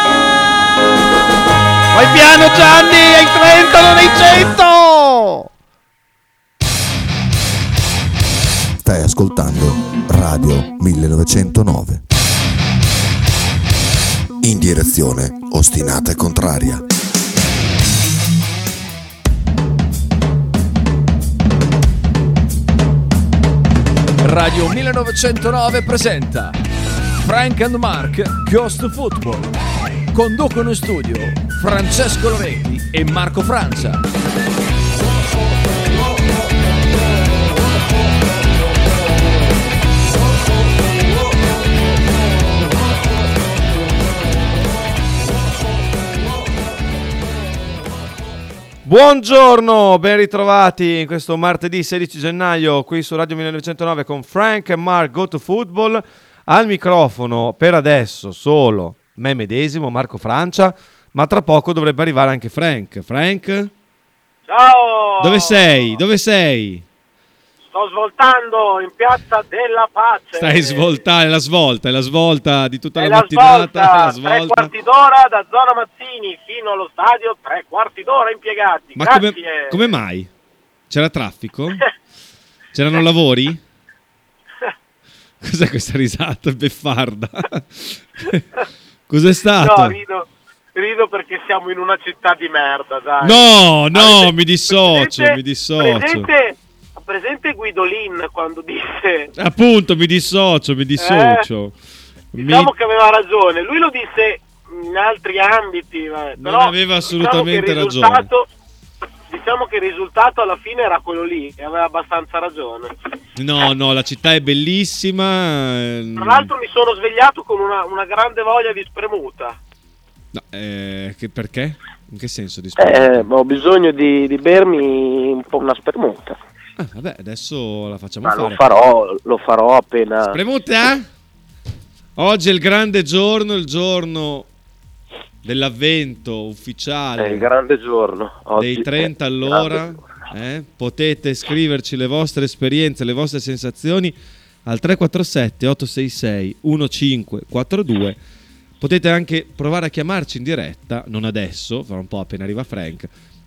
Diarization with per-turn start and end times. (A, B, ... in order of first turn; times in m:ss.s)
0:01.9-0:05.5 A
0:08.8-0:12.0 B
0:14.4-0:16.8 B
0:24.2-0:26.6 C
0:27.2-0:29.5 C
0:30.1-0:34.0 C
0:48.8-1:03.7 A
1:04.5-1:06.0 D
1:05.2-1:06.8 A
1:07.7-1:11.0 D
1:10.4-1:14.7 A
1:13.0-1:19.9 D
1:19.0-1:20.3 A
1:20.9-1:21.8 A
1:22.7-1:23.6 A
1:25.4-1:28.4 A
1:29.1-1:30.0 A
1:29.6-1:39.3 D
1:33.2-1:36.3 A
1:39.4-1:41.7 A
1:41.0-1:41.4 D
1:42.3-1:42.7 A
1:42.4-1:48.5 D
1:46.4-1:48.3 A
1:49.3-1:52.9 D
1:53.4-1:56.5 A
1:56.2-1:59.6 D
2:00.3-2:03.3 A
2:02.8-2:06.4 E
2:06.8-2:08.6 A
2:08.2-2:10.4 E
2:10.3-2:11.1 A
2:12.2-2:14.4 A
2:15.4-2:17.5 A
2:17.2-2:19.9 E
2:18.6-2:24.1 A
2:24.6-2:28.2 A
2:28.8-2:33.1 A